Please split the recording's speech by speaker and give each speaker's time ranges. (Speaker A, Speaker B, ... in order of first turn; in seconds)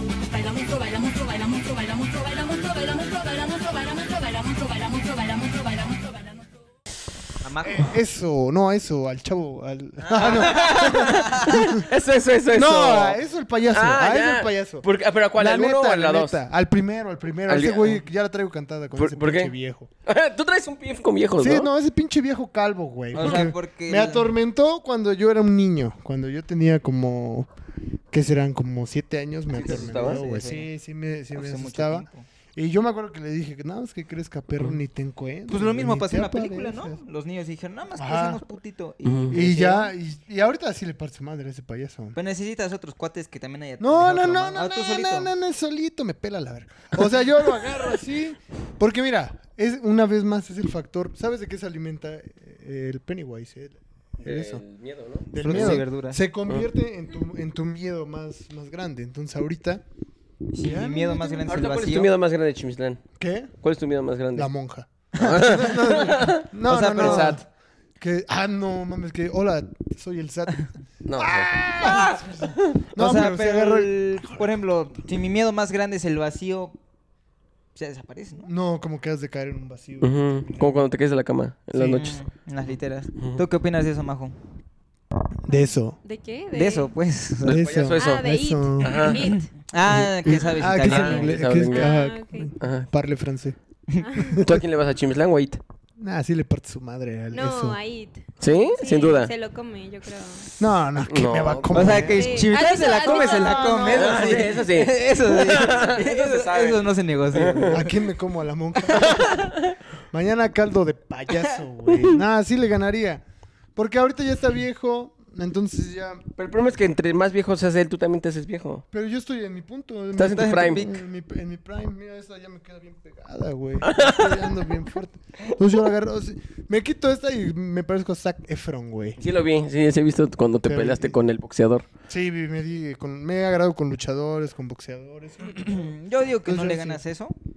Speaker A: 2.2-5.5
Speaker B: 7.4-7.9, 10.0-11.7, 23.1-24.3, 29.5-30.7, 31.3-32.3, 35.5-39.9, 42.1-45.3, 55.4-56.2, 60.5-62.1, 65.2-65.9, 66.7-67.4, 71.8-72.2, 73.0-76.8, 77.7-78.5, 81.9-84.3, 86.5-87.7, 89.0-91.3, 101.7-107.9, 108.9-109.4, 120.3-121.0, 135.4-137.3
Speaker C: 7.6-11.9, 12.5-19.9, 21.4-27.5, 28.1-37.0, 38.0-38.4, 39.3-42.2, 43.8-54.6, 55.3-59.8, 60.6-61.6, 63.2-63.5, 64.3-67.4, 68.0-74.5, 78.4-80.8, 81.7-82.1, 85.5-86.0, 87.5-89.1, 89.9-93.6, 94.2-94.6, 96.0-97.8, 100.6-104.6, 107.7-109.5, 110.1-113.2, 113.8-116.2, 118.9-129.2, 130.6-131.2, 132.1-135.9, 136.4-137.0
Speaker D: 10.3-16.4, 17.5-18.0, 19.0-19.5, 20.1-21.7, 29.6-30.2, 39.0-39.4, 54.2-55.8, 61.5-63.0, 63.6-64.5, 65.2-67.4, 71.1-72.0, 80.0-82.2, 87.4-88.3, 88.8-89.3, 90.3-92.0, 92.6-92.9, 94.4-95.6, 98.4-99.3, 101.1-102.0, 103.9-106.8, 107.3-107.8, 108.9-109.7, 116.4-118.8, 120.2-120.9, 123.8-124.6, 129.2-131.9
Speaker E: 85.5-86.9, 88.0-89.5, 91.7-92.5, 94.0-94.4, 97.3-100.5, 102.1-104.4